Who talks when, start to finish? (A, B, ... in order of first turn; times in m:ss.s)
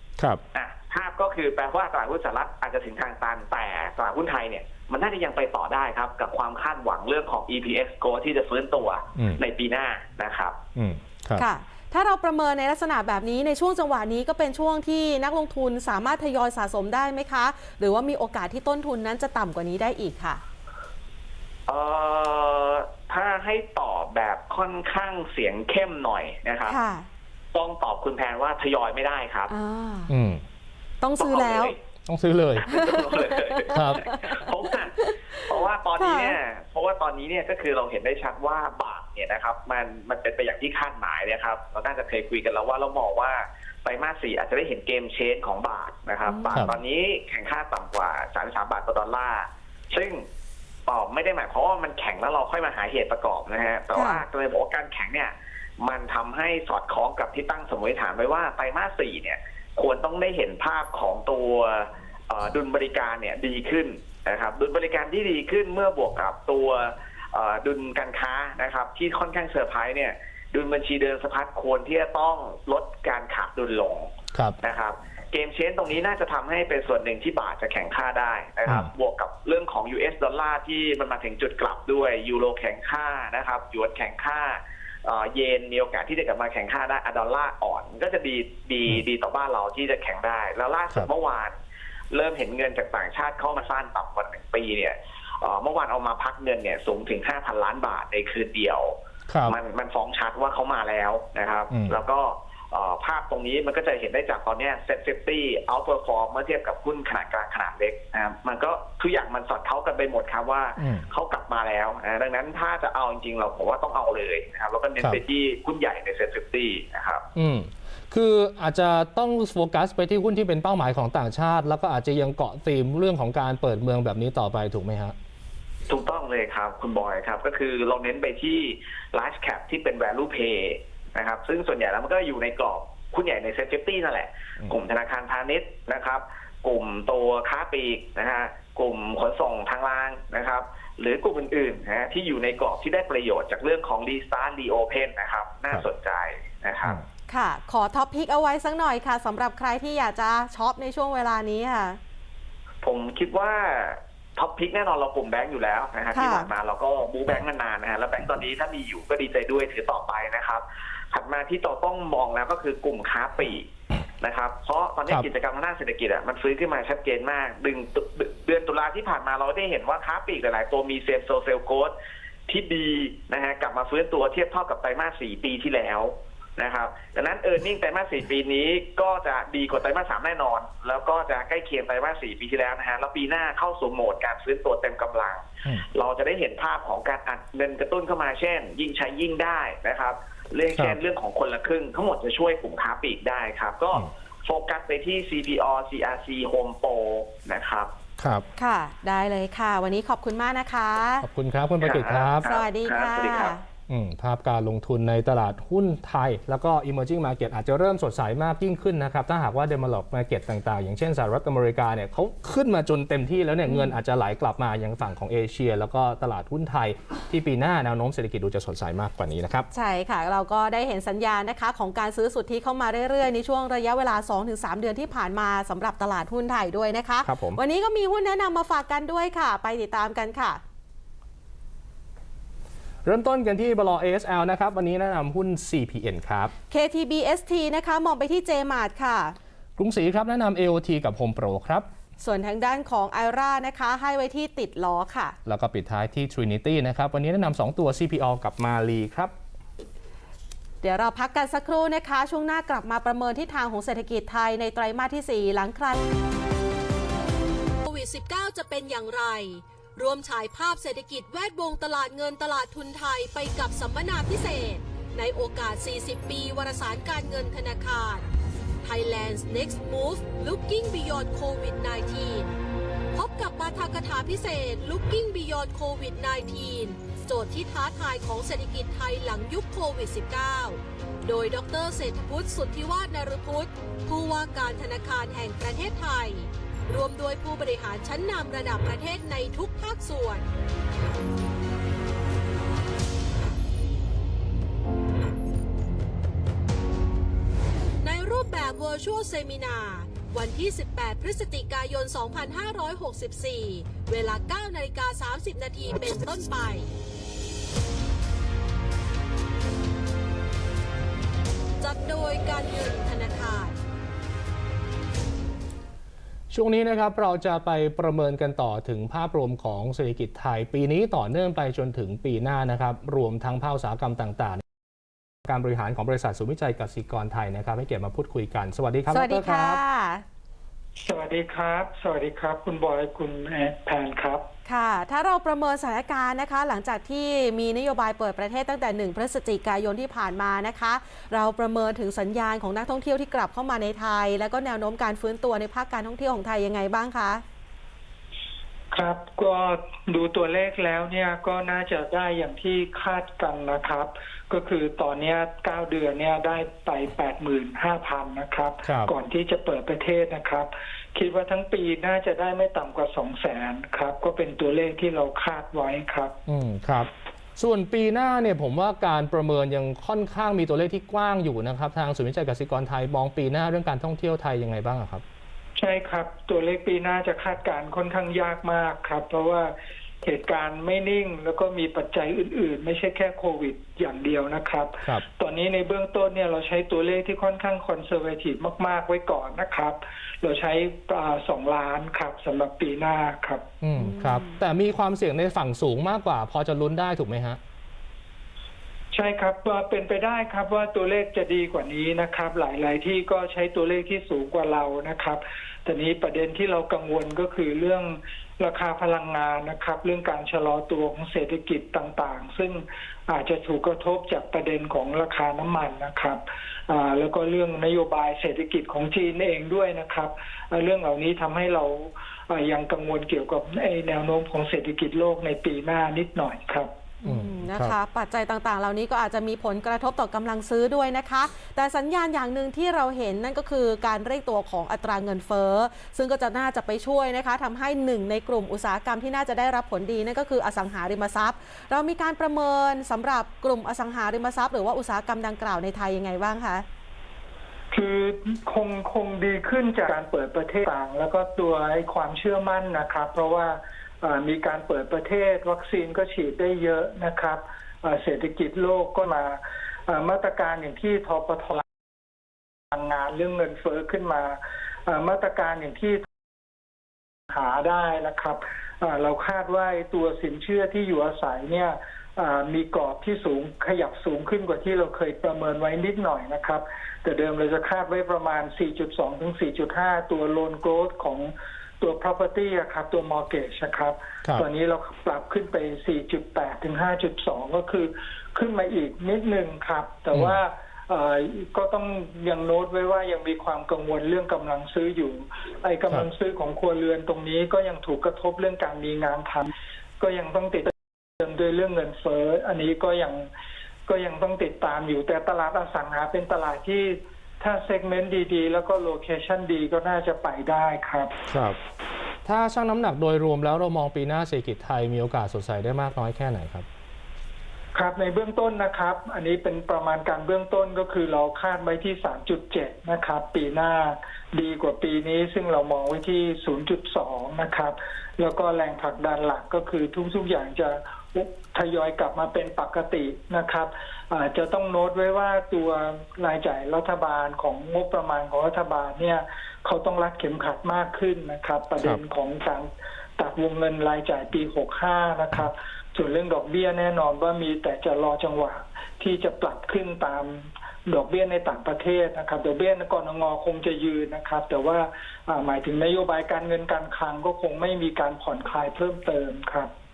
0:00.5-0:10.6 A
0:10.7-0:11.4 B
0:11.4-0:20.4 C
0:21.7-0:26.8 A
0:26.6-0:27.1 C
0:27.5-0:29.5 A
0:29.5-0:30.1 C
0:30.1-0:30.4 B
0:31.0-0:31.7 C
0:31.2-0:31.8 A
0:32.1-0:32.7 B
0:32.6-0:50.2 A
0:32.7-0:35.4 C
0:33.7-0:34.0 B
0:36.0-0:36.4 C
0:46.2-0:46.7 C
0:50.9-1:31.5 A
0:53.9-0:54.2 C
1:32.1-1:38.9 A
1:39.3-1:39.6 B
1:39.5-1:57.2 A
1:41.7-1:42.0 B
1:50.8-1:51.0 B
1:57.3-2:05.1 B
2:05.9-2:27.0 A
2:27.3-2:32.0 C
2:32.8-2:43.6 A
2:36.1-2:36.5 C
2:44.2-2:51.9 A
2:52.5-3:17.9 A
3:18.2-3:18.4 B
3:18.6-3:21.2 C
3:21.2-3:22.5 B
3:21.8-3:23.5 A
3:22.4-3:23.6 C
3:23.9-3:39.7 B
3:33.7-3:34.0 C
3:39.7-3:50.6 C
3:47.2-3:47.6 B
3:53.0-3:56.5 B
3:56.7-3:59.4 C
3:59.8-4:01.9 B
4:02.2-4:05.4 C
4:05.4-4:09.3 B
4:10.8-4:16.0 C
4:17.9-4:28.2 C
4:18.0-4:19.4 D
4:20.0-4:28.2 D
4:28.8-4:32.4 D
4:29.3-4:32.4 C
4:33.2-4:40.6 D
4:33.2-4:36.4 C
4:37.3-4:40.7 C
4:41.3-4:46.3 D
4:41.6-4:46.4 C
4:46.9-4:50.4 D
4:47.4-4:50.4 C
4:58.0-5:06.8 D
4:58.1-5:06.8 C
5:11.8-5:13.6 D
5:11.8-5:13.7 C
5:16.5-5:24.6 B
5:25.5-5:29.8 B
5:29.1-5:30.2 C
5:31.0-5:34.4 E
5:34.6-5:47.4 C
5:48.9-6:06.3 E
5:58.8-5:59.1 B
6:06.5-6:15.2 B
6:15.8-6:33.6 E
6:33.8-6:37.6 B
6:34.0-6:34.5 C
6:39.1-7:06.9 E
7:07.2-7:26.8 C
7:07.2-7:08.0 B
7:27.9-7:41.8 E
7:42.9-7:46.2 E
7:47.5-8:23.5 E
8:24.1-8:31.3 E
8:31.5-8:31.8 B
8:32.4-8:36.8 B
8:37.9-9:19.9 E